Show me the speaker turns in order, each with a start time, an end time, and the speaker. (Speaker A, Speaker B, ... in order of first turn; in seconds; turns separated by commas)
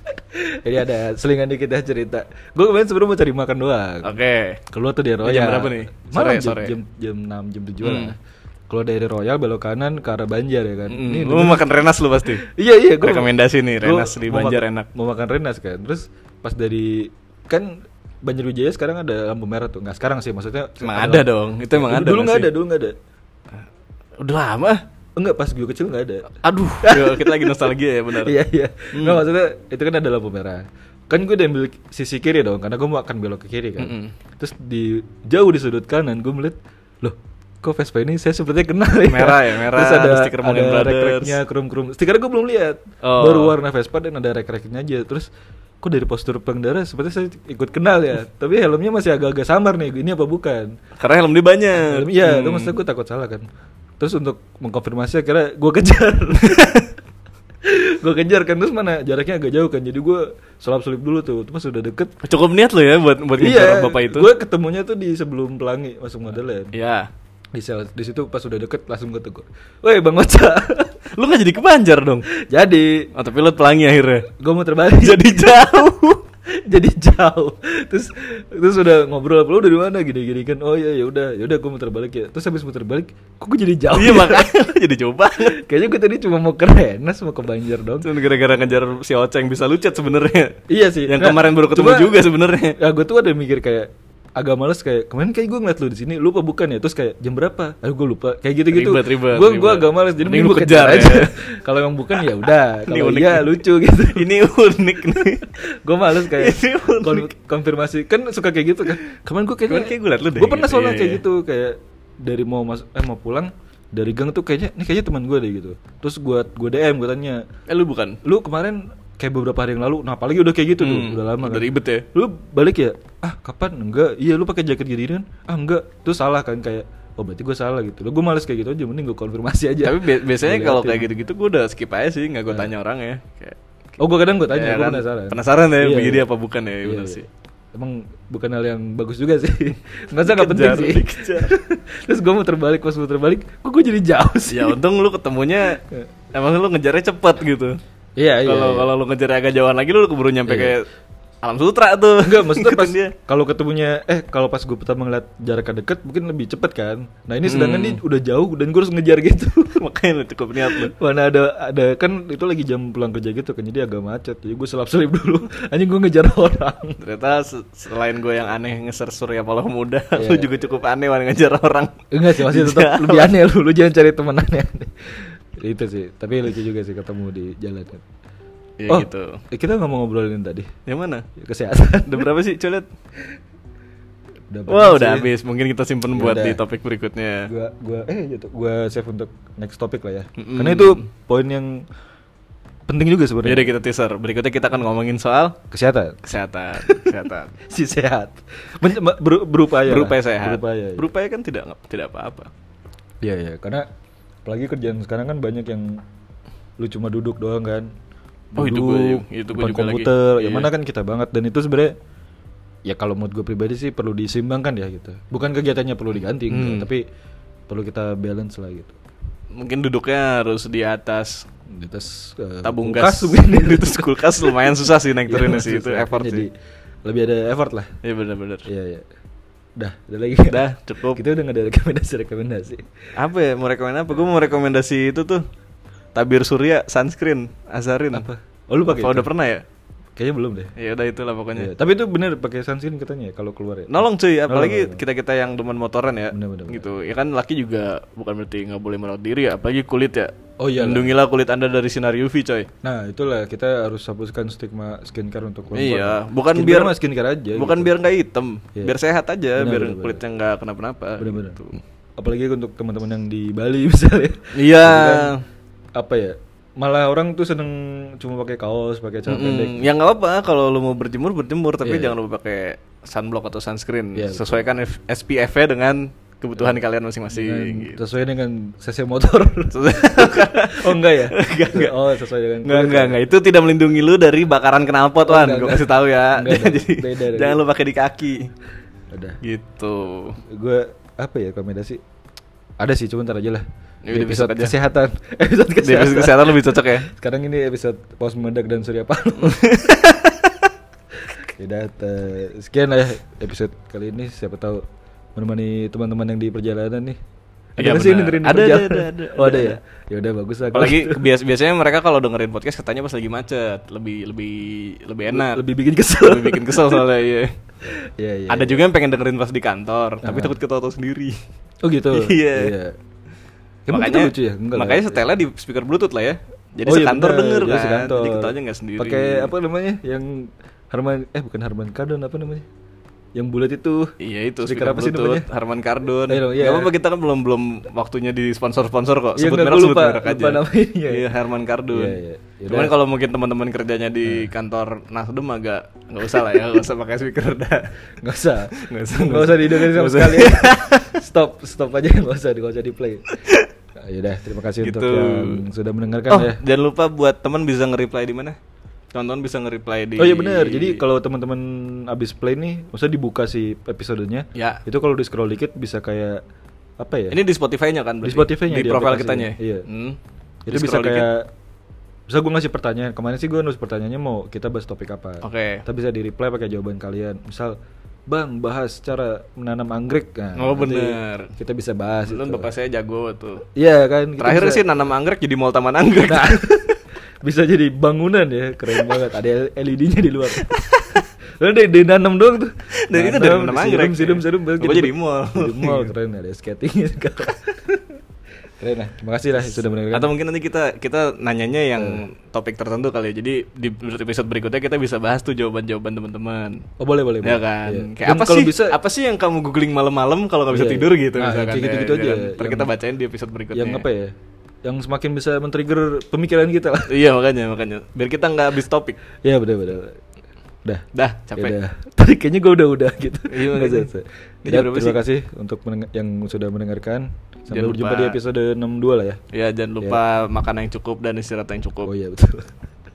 Speaker A: 0.1-4.1, Speaker B: 4.0-4.6, Speaker A: 4.7-8.2, Speaker B: 5.2-6.8, Speaker B: 7.8-8.1, Speaker A: 8.7-11.7, Speaker B: 10.9-12.5, Speaker A: 12.3-22.9, Speaker B: 13.0-14.9, Speaker B: 20.8-22.5, Speaker B: 24.2-24.8, Speaker A: 25.2-45.3, Speaker B: 26.4-28.4, Speaker B: 28.9-29.2, Speaker B: 33.8-34.1, Speaker B: 39.1-41.4, Speaker B: 43.0-43.6, Speaker A: 45.8-50.7, Speaker B: 51.0-52.8, Speaker A: 51.8-53.4, Speaker A: 54.0-56.8, Speaker B: 56.4-56.9, Speaker A: 57.6-62.1, Speaker B: 62.2-64.3, Speaker A: 63.4-66.7, Speaker B: 66.7-67.1, Speaker A: 67.5-71.0, Speaker B: 71.2-72.3, Speaker A: 72.3-73.1, Speaker B: 73.1-74.3, Speaker A: 74.3-75.3, Speaker B: 75.0-76.2, Speaker A: 76.5-84.6, Speaker B: 83.9-85.6, Speaker A: 85.4-88.1, Speaker B: 88.0-92.8, Speaker A: 90.7-104.3, Speaker B: 98.7-101.3, Speaker B: 102.9-105.5, Speaker A: 105.1-117.4, Speaker B: 106.1-107.3, Speaker B: 109.7-111.2, Speaker B: 117.7-118.2, Speaker A: 118.2-131.1, Speaker B: 120.8-122.1, Speaker B: 129.8-133.6, Speaker A: 134.0-136.3, Speaker B: 134.5-137.3, Speaker A: 136.8-144.8, Speaker B: 140.2-141.5, Speaker B: 144.5-145.8, Speaker A: 145.8-146.1, Speaker B: 146.3-147.8, Speaker A: 148.2-148.9, Speaker B: 148.4-150.8, Speaker A: 150.5-150.8, Speaker B: 151.4-153.2, Speaker A: 152.2-159.8, Speaker B: 157.4-158.0, Speaker B: 159.8-160.9, Speaker A: 160.6-167.0, Speaker B: 167.0-173.3, Speaker A: 170.2-170.5, Speaker A: 172.1-178.0, Speaker B: 178.8-179.4, Speaker A: 178.9-180.7, Speaker B: 180.9-181.3, Speaker A: 181.4-182.3, Speaker B: 182.1-182.9, Speaker A: 184.5-185.3, Speaker B: 184.7-187.5, Speaker A: 186.1-186.6, Speaker A: 187.5-191.8, Speaker B: 190.4-191.1, Speaker A: 192.9-193.7, Speaker B: 193.4-195.6, Speaker A: 195.7-196.2, Speaker B: 196.2-197.6, Speaker A: 196.8-197.1, Speaker A: 197.7-201.1, Speaker B: 199.8-202.5, Speaker A: 203.2-203.9, Speaker A: 204.4-206.0, Speaker A: 206.8-207.9, Speaker A: 208.5-211.9, Speaker B: 208.6-210.7, Speaker A: 212.9-217.0, Speaker B: 216.5-216.9, Speaker A: 217.7-219.0, Speaker B: 219.5-221.4, Speaker A: 221.7-226.5, Speaker B: 222.6-226.5, Speaker A: 227.0-227.9, Speaker B: 228.0-228.7, Speaker A: 228.7-229.1, Speaker A: 229.8-232.9, Speaker B: 230.5-231.2, Speaker B: 233.2-235.4, Speaker B: 236.2-238.3, Speaker A: 238.1-239.3, Speaker B: 238.9-239.6, Speaker A: 240.2-240.7, Speaker B: 240.8-241.7, Speaker A: 241.6-245.0, Speaker B: 243.9-252.7, Speaker A: 246.3-246.9, Speaker A: 250.6-251.2, Speaker A: 252.8-257.9, Speaker B: 255.7-256.9, Speaker B: 257.6-261.8, Speaker A: 259.6-260.2, Speaker A: 261.2-261.6, Speaker A: 262.2-265.3, Speaker B: 264.5-265.4, Speaker A: 266.0-269.9, Speaker B: 269.3-278.0, Speaker A: 271.8-272.1, Speaker A: 274.1-274.6, Speaker A: 277.3-283.2, Speaker B: 279.7-281.9, Speaker B: 282.6-288.5, Speaker A: 285.2-287.6, Speaker A: 289.1-289.4, Speaker B: 289.4-290.4, Speaker A: 290.4-292.0, Speaker A: 292.8-299.8, Speaker B: 294.1-294.7, Speaker B: 295.8-297.1, Speaker B: 299.4-300.7, Speaker A: 301.4-304.8, Speaker A: 305.4-307.2, Speaker A: 307.8-311.2, Speaker B: 307.8-309.8, Speaker B: 310.7-315.6, Speaker A: 315.3-317.1, Speaker B: 316.2-317.5, Speaker A: 317.9-318.9, Speaker B: 318.5-321.4, Speaker A: 320.2-320.6, Speaker A: 321.8-322.9, Speaker B: 322.1-322.7, Speaker A: 323.9-325.2, Speaker B: 323.9-329.5, Speaker A: 326.9-332.7, Speaker A: 333.4-334.1, Speaker B: 334.2-347.9, Speaker A: 334.6-335.5, Speaker A: 336.3-336.9, Speaker A: 339.4-341.3, Speaker A: 341.9-342.9, Speaker A: 344.2-344.5, Speaker A: 348.2-353.3, Speaker B: 348.7-351.1, Speaker B: 353.4-353.7, Speaker A: 354.0-356.6, Speaker B: 354.8-355.6, Speaker B: 356.3-358.6, Speaker B: 359.1-361.0, Speaker A: 360.2-366.4, Speaker B: 364.6-364.8, Speaker A: 367.0-367.4, Speaker B: 367.3-370.2, Speaker A: 368.2-369.9, Speaker A: 370.7-371.5, Speaker B: 370.7-371.3, Speaker A: 372.3-377.8, Speaker B: 375.4-375.8, Speaker A: 378.3-382.7, Speaker B: 380.6-381.6, Speaker B: 382.3-383.6, Speaker A: 383.8-384.9, Speaker B: 384.4-386.9, Speaker A: 386.3-398.2, Speaker B: 390.5-391.2, Speaker B: 392.9-396.1, Speaker A: 398.8-400.3, Speaker B: 400.1-406.9, Speaker A: 402.0-402.2, Speaker A: 407.0-409.0, Speaker B: 407.4-414.1, Speaker A: 410.7-412.9, Speaker A: 413.7-417.1, Speaker B: 417.1-419.2, Speaker A: 419.4-420.2, Speaker A: 420.9-429.4, Speaker B: 421.1-421.8, Speaker B: 423.5-424.1, Speaker B: 424.6-425.2, Speaker B: 427.7-428.4, Speaker B: 429.5-432.1, Speaker A: 432.1-432.7